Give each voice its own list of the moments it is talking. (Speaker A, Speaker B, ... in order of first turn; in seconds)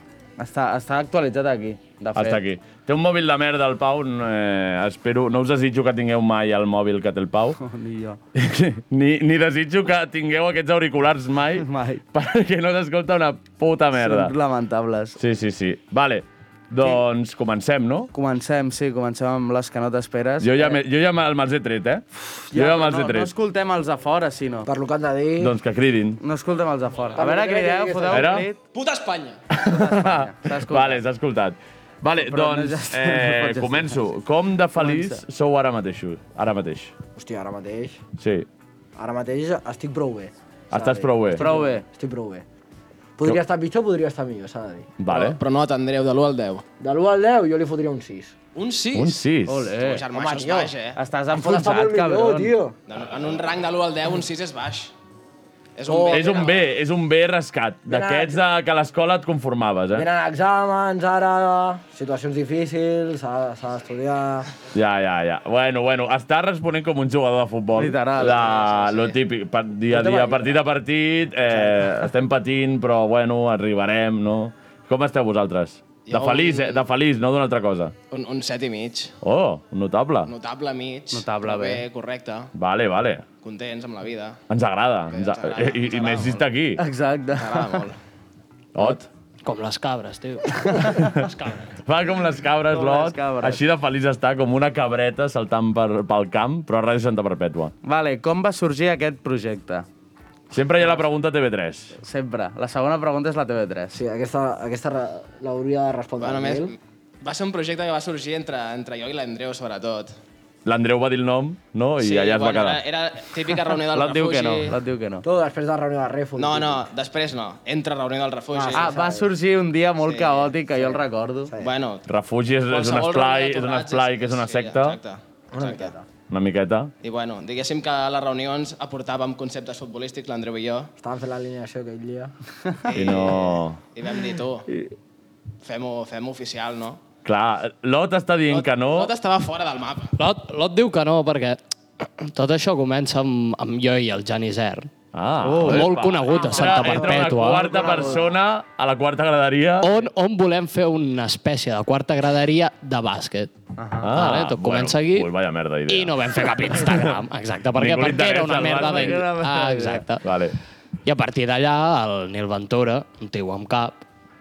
Speaker A: 0.4-2.4, 7.6-8.2, 11.6-12.0, 13.9-15.2, 18.1-20.8, 22.5-24.7, 26.2-28.6, 29.7-31.1, 32.2-34.0, 34.8-35.2, 41.3-41.8, 49.5-50.0, 51.0-52.5, 67.7-69.0, 81.1-81.8, 86.8-87.8, 92.7-93.6, 97.8-99.8, 102.0-104.0, 113.9-115.2, 118.7-121.5, 145.4-148.3, 153.8-154.1, 158.5-160.1
Speaker B: 2.1-7.6, 8.3-14.3, 15.2-18.1, 20.4-23.3, 25.4-26.2, 28.1-28.5, 29.5-36.9, 38.2-38.5, 40.7-41.5, 45.0-45.4, 48.9-49.7, 56.1-60.1, 64.7-77.9, 79.2-80.3, 82.5-83.2, 84.5-86.8, 88.7-89.1, 90.8-91.3, 91.8-97.7, 100.5-101.9, 110.6-112.8, 122.1-125.0, 126.3-126.9, 132.9-133.8, 137.2-139.1, 145.1-149.9, 154.0-156.2, 157.7-159.2, 160.2-160.5
Speaker C: 24.7-25.5, 27.1-28.4, 37.1-38.0, 39.0-42.5, 43.2-45.0, 46.8-48.3, 50.1-50.7, 51.3-52.7, 55.9-56.4, 57.9-58.4, 59.9-64.5, 69.9-70.6, 103.9-106.7, 115.2-116.9, 118.5-119.3, 120.7-121.7, 125.5-126.1, 131.0-132.3
Speaker D: 28.7-29.4, 45.1-46.6, 48.5-49.2, 49.7-51.0, 52.9-54.9, 55.8-56.6, 76.1-76.8, 78.1-79.1, 80.2-82.5, 83.4-84.4, 85.1-86.4, 87.3-88.0, 106.2-110.1, 112.0-114.8, 116.3-118.9, 120.0-120.5, 121.6-122.0, 122.7-125.9, 127.0-130.9, 132.8-134.7, 135.6-137.0, 138.5-140.1
Speaker E: 89.4-91.7, 140.2-144.9, 145.6-147.8, 149.8-153.5, 154.1-155.3, 155.9-160.2, 161.0-164.0